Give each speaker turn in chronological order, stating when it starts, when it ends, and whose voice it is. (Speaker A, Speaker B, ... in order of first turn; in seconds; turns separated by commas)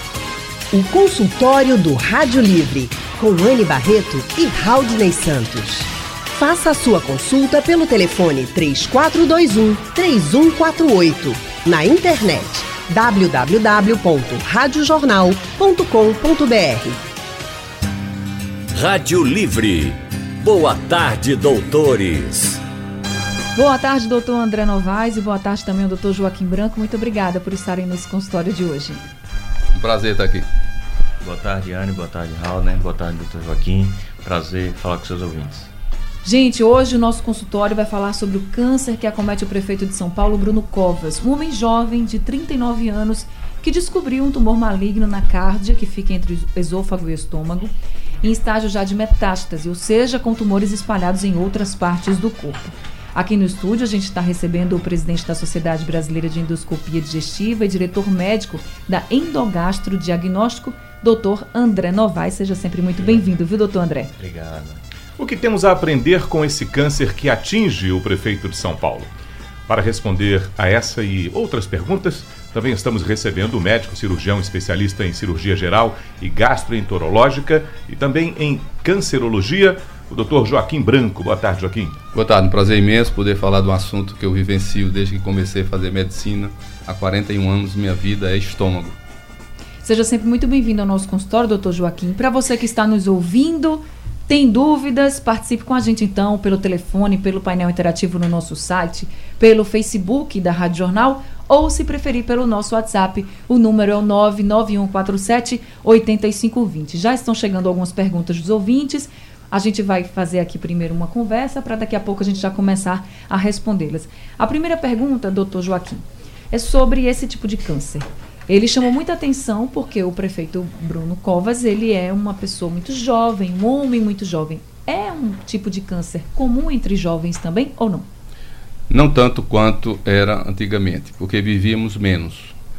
Speaker A: 0.7-17.0, Speaker B: 18.7-22.6, Speaker C: 23.5-29.0, Speaker D: 29.7-30.4, Speaker E: 31.2-35.7, Speaker C: 36.2-47.7, Speaker C: 48.2-64.1, Speaker E: 64.2-64.8, Speaker F: 65.2-69.1, Speaker F: 69.7-82.0, Speaker D: 82.1-89.0, Speaker C: 89.8-128.1, Speaker D: 128.9-132.5